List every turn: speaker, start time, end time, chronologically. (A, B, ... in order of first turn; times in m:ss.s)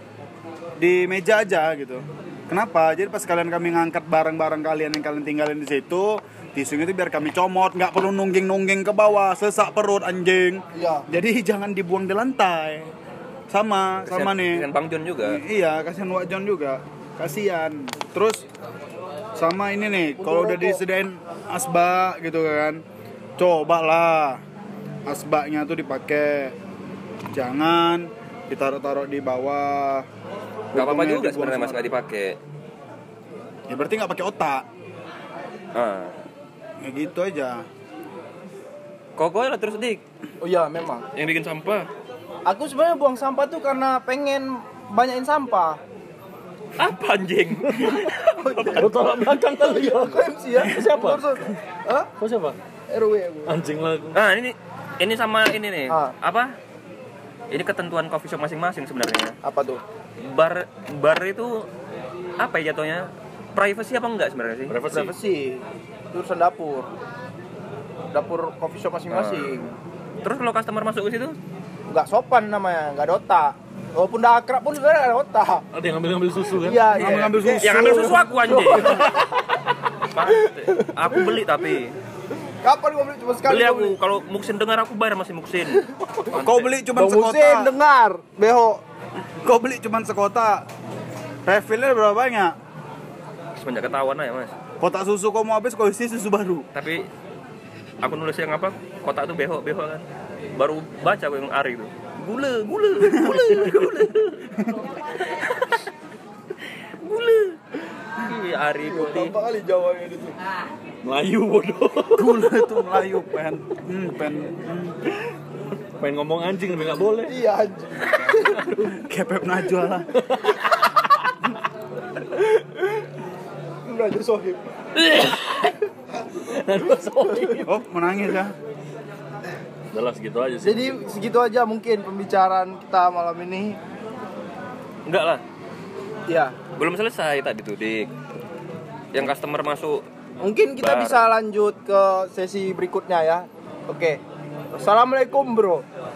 0:00.8-0:12.9 A
0:10.7-0:11.1 B
0:13.5-0:14.6 A
0:14.0-0:15.4 C
0:15.2-0:18.4 A
0:19.4-0:22.8 A
0:20.2-0:20.8 B
0:23.4-0:24.4 A
0:25.1-0:26.6 A
0:27.3-0:30.1 A
0:30.7-0:31.9 A
0:30.8-0:32.4 C
0:33.7-0:34.6 A
0:35.8-0:36.1 C
0:36.8-0:37.7 A
0:39.2-0:40.0 C
0:40.4-0:41.0 B
0:41.1-0:41.9 C
0:42.4-0:45.8 B
0:46.8-0:48.9 C
0:47.7-0:48.0 D
0:48.4-0:52.1 B
0:48.7-0:51.4 D
0:52.2-0:52.6 D
0:52.9-0:53.6 B
0:53.5-0:54.2 D
0:54.1-0:56.5 C
0:57.5-0:59.4 C
0:59.4-0:59.8 B
1:00.2-1:01.7 C
1:02.4-1:04.8 C
1:04.7-1:05.2 D
1:04.9-1:06.9 B
1:08.1-1:09.7 B
1:09.1-1:09.6 C
1:10.2-1:11.4 C
1:11.9-1:15.6 B
1:15.7-1:17.6 D
1:16.6-1:19.5 B
1:17.0-1:18.3 A
1:17.6-1:19.1 C
1:18.9-1:19.2 D
1:20.1-1:22.0 C
1:20.2-1:21.3 B
1:22.6-1:24.0 B
1:23.5-1:26.7 C
1:26.0-1:26.3 B
1:26.4-1:27.8 A
1:26.9-1:28.8 B
1:29.4-1:30.6 A
1:31.4-1:32.5 A
1:33.6-1:34.5 C
1:34.8-1:36.7 A
1:36.7-1:37.0 C
1:38.0-1:40.0 C
1:40.6-1:44.5 C
1:43.0-1:43.4 A
1:45.2-1:45.9 C
1:47.0-1:47.6 C
1:48.2-1:49.3 C
1:48.8-1:50.4 B
1:51.0-1:52.6 D
1:52.1-1:55.0 A
1:55.8-1:57.4 D
1:57.2-1:58.7 B
1:58.3-1:59.0 D
1:58.9-2:00.2 A
2:00.1-2:00.9 D
2:02.2-2:03.1 B
2:03.8-2:04.7 B
2:05.0-2:05.8 D
2:06.4-2:07.8 D
2:07.3-2:07.6 B
2:07.6-2:08.6 A
2:09.9-2:11.0 D
2:10.6-2:13.8 B
2:15.1-2:15.4 C
2:16.3-2:16.6 B
2:16.8-2:18.1 C
2:19.1-2:20.0 C
2:20.4-2:24.2 B
2:20.8-2:21.2 C
2:24.7-2:25.8 B